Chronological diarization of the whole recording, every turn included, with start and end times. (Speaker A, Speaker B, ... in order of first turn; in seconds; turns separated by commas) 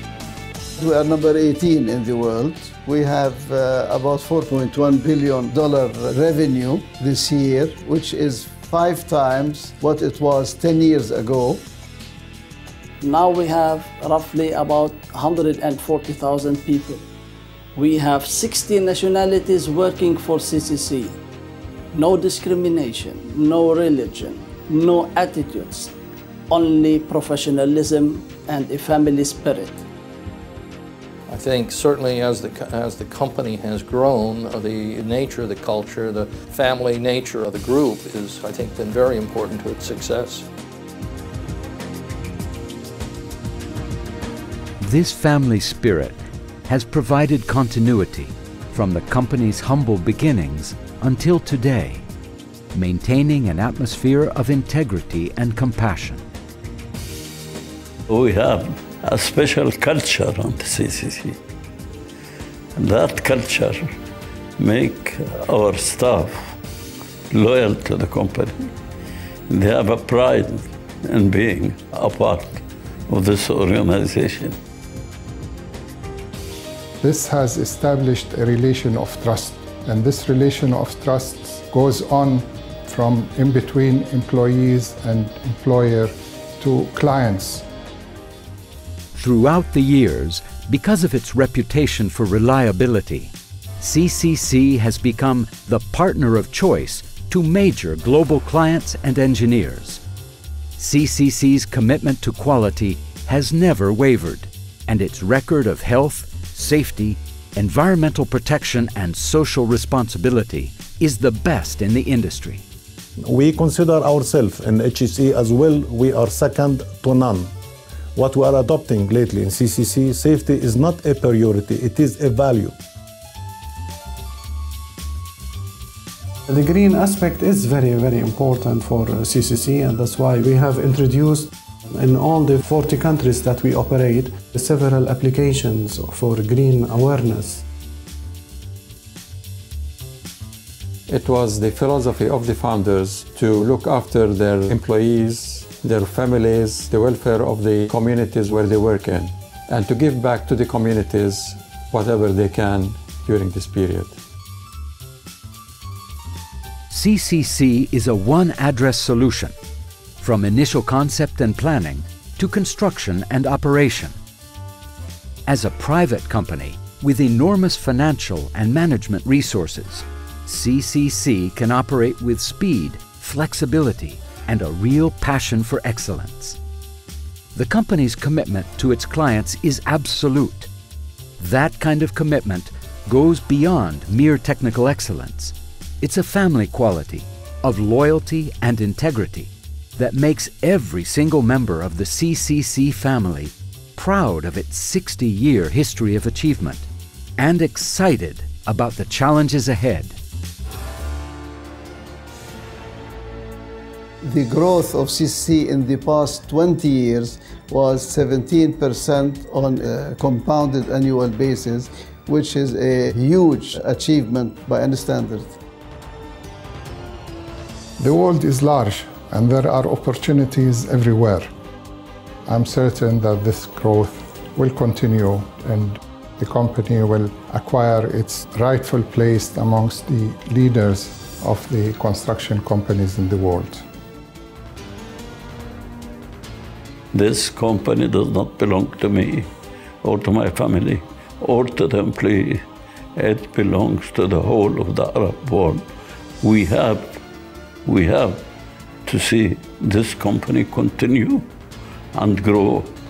Speaker A: 0.8-11.6, Speaker B: 13.0-17.0, Speaker B: 17.8-21.2, Speaker B: 21.9-25.9, Speaker B: 26.5-29.8, Speaker C: 31.3-40.5, Speaker D: 44.8-52.0, Speaker D: 52.7-56.2, Speaker E: 58.1-61.4, Speaker E: 62.8-63.9, Speaker E: 64.6-66.5, Speaker E: 67.3-68.7, Speaker E: 69.5-74.5, Speaker F: 77.0-87.7, Speaker D: 89.1-100.0, Speaker D: 100.8-112.6, Speaker G: 113.2-117.5, Speaker G: 118.2-122.7, Speaker H: 126.5-137.6, Speaker I: 141.1-154.2, Speaker D: 156.9-159.5, Speaker D: 160.2-164.2, Speaker D: 165.5-176.6, Speaker D: 177.5-180.7, Speaker D: 181.4-196.9, Speaker D: 197.4-200.2, Speaker A: 204.2-215.6, Speaker F: 218.0-221.5, Speaker F: 222.4-233.8, Speaker E: 237.1-239.5, Speaker E: 240.0-242.6, Speaker E: 243.2-245.8, Speaker E: 246.4-247.2, Speaker E: 247.8-248.4, Speaker E: 249.1-251.4, Speaker E: 252.1-252.9